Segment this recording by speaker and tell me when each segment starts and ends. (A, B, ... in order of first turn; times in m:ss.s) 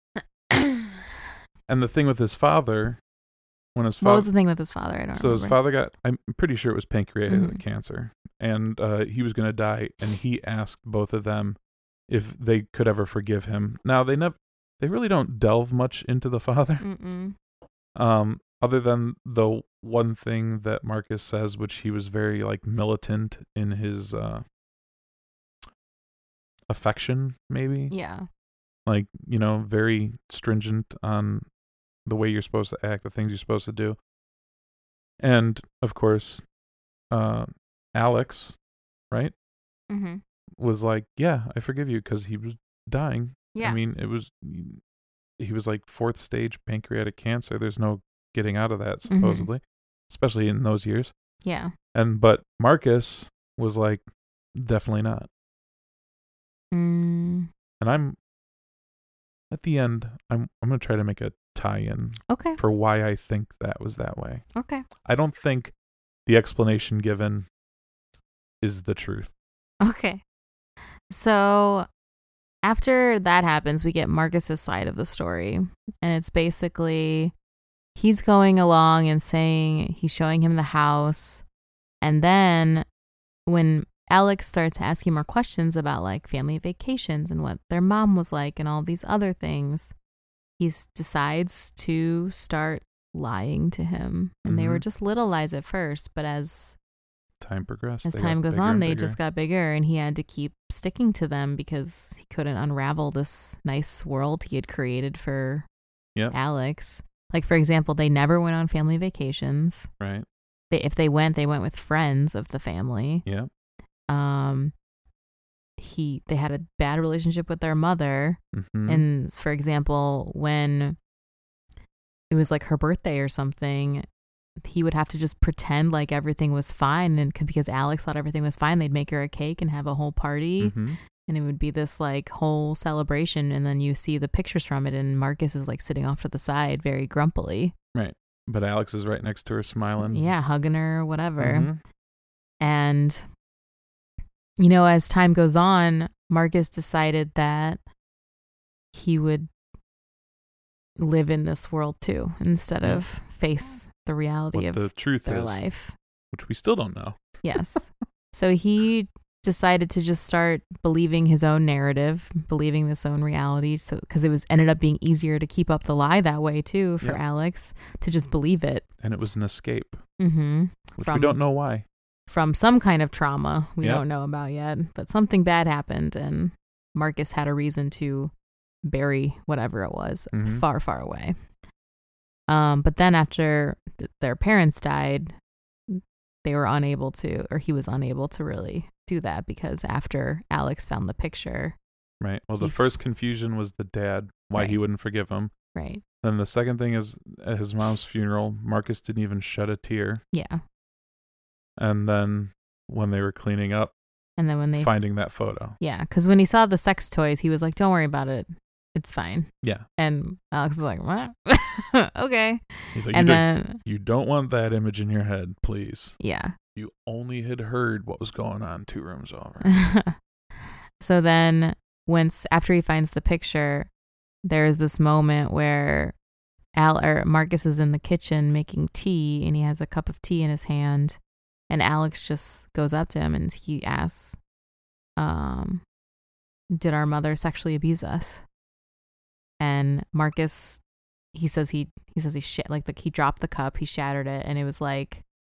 0:00.5-0:01.0 A
0:01.7-0:03.0 B
0:03.7-0:04.3 B
0:04.0-0:05.6 A
0:05.1-0:11.6 B
0:07.3-0:07.6 A
0:12.1-0:16.8 B
0:16.8-0:17.4 A
0:18.0-0:24.4 B
0:26.7-0:27.9 B
0:27.9-0:28.3 A
0:28.8-0:31.4 B
0:32.0-0:34.0 B
0:35.2-0:36.4 B
0:37.1-0:38.6 B
0:39.9-0:40.2 A
0:40.6-0:44.8 B
0:43.5-0:43.8 A
0:45.4-0:51.1 B
0:49.1-0:49.5 A
0:51.4-0:51.7 A
0:51.9-0:54.0 B
0:54.5-0:55.3 B
0:56.7-0:57.5 A
0:57.8-0:58.2 B
0:59.5-1:04.4 B
1:02.3-1:02.6 A
1:04.6-1:04.8 A
1:05.0-1:05.7 B
1:06.2-1:07.4 B
1:08.6-1:09.3 B
1:09.8-1:10.2 A
1:11.1-1:11.9 A
1:12.6-1:17.3 A
1:18.0-1:21.4 A
1:22.0-1:22.8 A
1:23.5-1:29.9 A
1:30.6-1:36.8 A
1:34.4-1:34.8 B
1:37.4-1:39.2 B
1:38.0-1:45.7 A
1:46.3-1:49.9 A
1:50.0-1:50.2 B
1:50.7-1:53.2 A
1:54.1-1:54.7 A
1:55.8-2:01.0 A
1:58.5-1:59.0 B
2:02.3-2:04.0 A
2:04.6-2:17.7 A
2:10.6-2:11.0 B
2:17.9-2:20.3 B
2:20.0-2:21.7 A
2:21.4-2:21.8 B
2:22.6-2:23.3 A
2:24.6-2:27.8 A
2:28.9-2:29.5 A
2:31.0-2:35.9 A
2:34.5-2:35.6 B
2:36.3-2:37.6 B
2:37.4-2:48.8 A
2:49.0-2:50.0 B
2:50.2-2:51.4 A
2:51.0-2:51.8 B
2:52.3-2:58.3 A
2:58.8-3:01.3 A
3:00.3-3:00.6 B
3:02.5-3:05.3 A
3:05.9-3:11.8 A
3:12.2-3:15.5 B
3:12.6-3:12.9 A
3:15.7-3:16.0 A
3:16.2-3:20.2 B
3:20.3-3:20.6 A
3:21.8-3:23.9 B
3:24.4-3:24.9 A
3:24.8-3:25.8 B
3:25.8-3:33.8 A
3:32.9-3:36.2 B
3:36.2-3:36.6 A
3:36.7-3:39.7 B
3:39.6-3:40.2 A
3:41.0-3:43.9 A
3:44.4-3:46.2 A
3:46.8-3:54.4 A
3:55.2-3:55.8 A
3:56.7-3:58.4 A
3:59.6-4:00.8 A
4:01.3-4:05.2 A